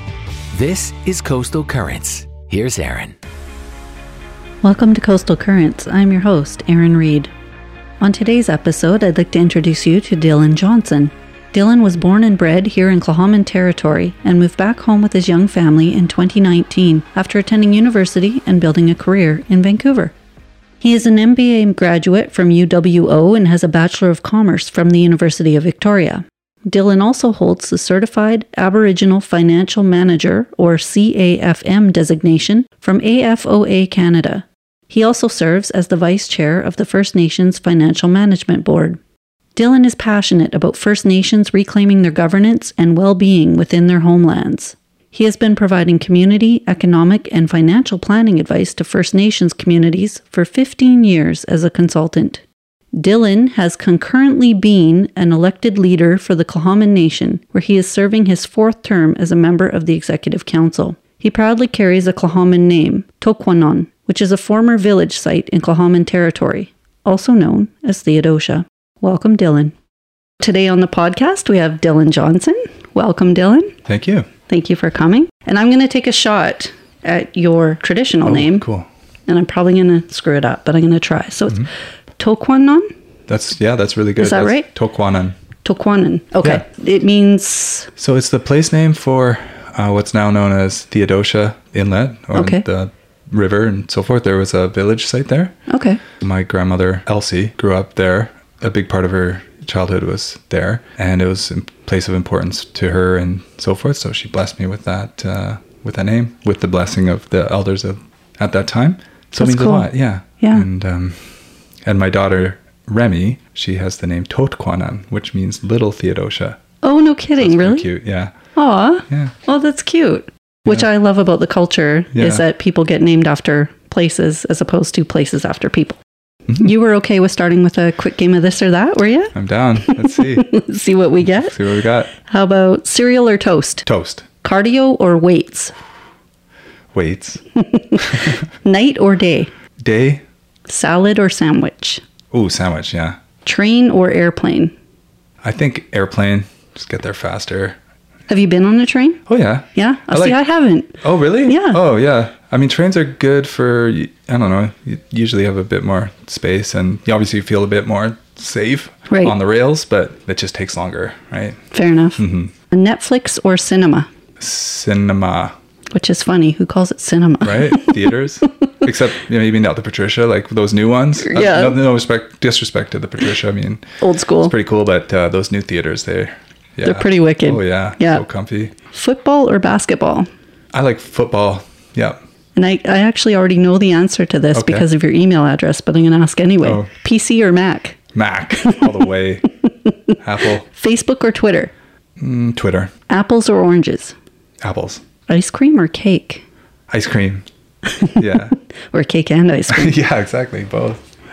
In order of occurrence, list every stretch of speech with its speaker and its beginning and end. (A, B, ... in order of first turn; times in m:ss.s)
0:00.5-0:03.2 A
0:04.6-0:07.3 B
0:08.0-0:20.1 B
0:20.8-0:39.0 B
0:39.6-0:52.4 B
0:52.9-1:09.7 B
1:10.4-1:13.7 B
1:13.8-1:14.3 C
1:14.5-1:18.7 B
1:18.2-1:18.9 C
1:19.3-1:21.7 B
1:22.2-1:22.9 B
1:23.3-1:25.4 C
1:24.2-1:24.7 B
1:25.6-1:27.9 B
1:28.0-1:35.6 C
1:32.3-1:32.6 B
1:35.7-1:36.0 B
1:36.1-1:56.6 C
1:49.3-1:49.9 B
1:50.4-1:50.6 B
1:56.8-1:57.9 B
1:57.4-1:58.3 C
1:58.5-2:06.0 B
1:59.1-1:59.3 C
2:02.1-2:02.4 C
2:06.5-2:11.5 B
2:09.3-2:10.5 C
2:11.2-2:12.1 C
2:12.1-2:13.8 B
2:13.8-2:14.3 C
2:14.4-2:15.7 B
2:16.9-2:17.4 C
2:17.6-2:19.5 B
2:18.0-2:18.4 C
2:19.8-2:20.2 C
2:20.7-2:22.0 B
2:22.3-2:23.2 C
2:23.4-2:24.7 B
2:25.4-2:27.8 C
2:28.3-2:29.2 B
2:29.3-2:30.4 C
2:29.7-2:31.8 B
2:31.0-2:41.6 C
2:39.1-2:39.3 B
2:41.7-2:44.1 B
2:42.2-2:42.5 C
2:44.4-2:45.5 C
2:45.9-2:48.7 B
2:47.4-2:53.8 C
2:51.2-2:51.8 B
2:54.0-2:54.5 B
2:54.4-2:58.7 C
2:56.8-2:58.2 B
2:58.8-3:00.3 B
3:00.7-3:02.2 C
3:02.6-3:08.0 B
3:04.5-3:04.9 C
3:06.6-3:06.9 C
3:08.1-3:09.4 C
3:08.6-3:08.9 B
3:09.6-3:10.1 B
3:10.2-3:10.6 C
3:10.7-3:11.7 B
3:12.2-3:12.9 C
3:13.1-3:14.2 B
3:14.6-3:15.0 C
3:15.3-3:16.4 B
3:16.9-3:17.4 C
3:17.8-3:20.0 B
3:18.2-3:18.5 C
3:19.7-3:21.0 C